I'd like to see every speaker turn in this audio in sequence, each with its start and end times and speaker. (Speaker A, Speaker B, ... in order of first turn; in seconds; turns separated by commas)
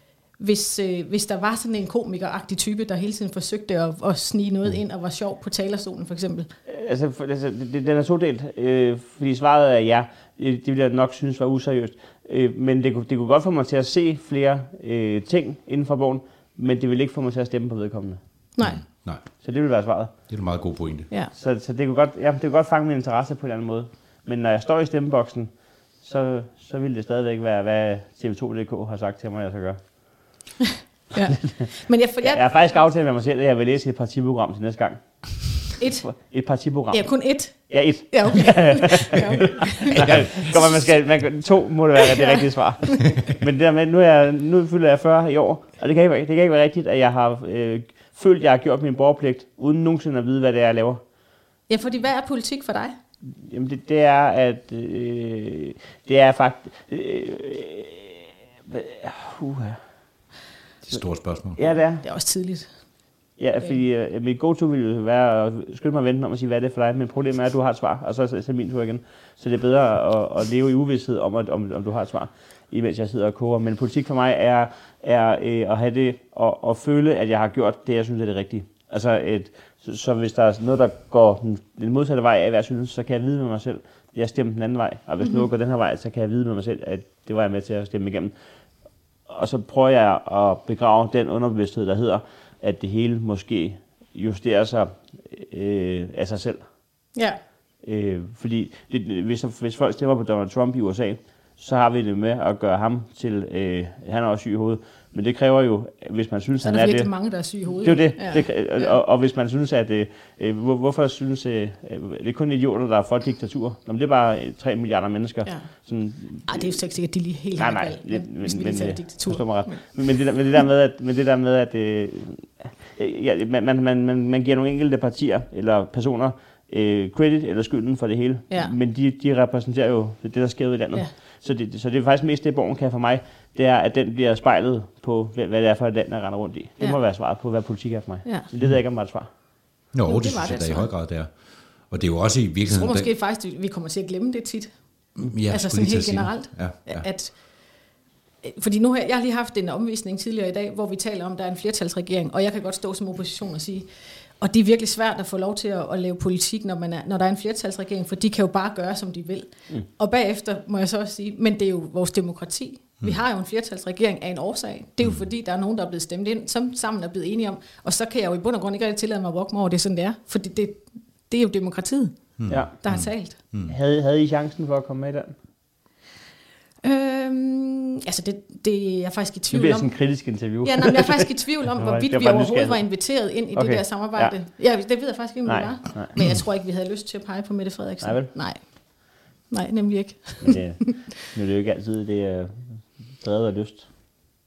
Speaker A: 0.4-6.5, Speaker B: 6.7-18.2, Speaker A: 18.6-18.8, Speaker C: 18.6-19.2, Speaker B: 19.4-20.1, Speaker C: 20.3-21.1, Speaker B: 21.3-29.8, Speaker A: 31.1-32.4, Speaker B: 32.2-35.0, Speaker B: 35.7-51.0, Speaker A: 35.8-36.1, Speaker A: 36.9-40.8, Speaker C: 40.0-40.5, Speaker A: 42.1-42.4, Speaker A: 51.7-53.0, Speaker B: 53.4-59.8, Speaker C: 60.9-61.6, Speaker B: 61.6-62.0, Speaker A: 62.0-62.7, Speaker B: 63.4-88.3, Speaker B: 89.3-96.6, Speaker A: 97.2-97.4, Speaker B: 97.8-107.1, Speaker A: 106.6-108.9, Speaker B: 107.8-116.8, Speaker A: 116.5-119.8, Speaker B: 117.6-139.3, Speaker C: 139.9-141.3, Speaker A: 140.1-140.9, Speaker C: 141.9-143.1, Speaker A: 142.7-144.7, Speaker C: 145.2-147.1, Speaker A: 145.5-147.4, Speaker A: 148.4-153.9, Speaker A: 154.4-173.4, Speaker C: 172.4-173.8, Speaker B: 172.5-172.8, Speaker B: 173.7-175.4, Speaker A: 176.8-179.9, Speaker B: 179.5-182.8, Speaker A: 180.6-188.6, Speaker B: 183.5-184.3, Speaker B: 185.5-186.2, Speaker B: 188.0-188.3, Speaker A: 189.5-190.9, Speaker B: 190.4-193.9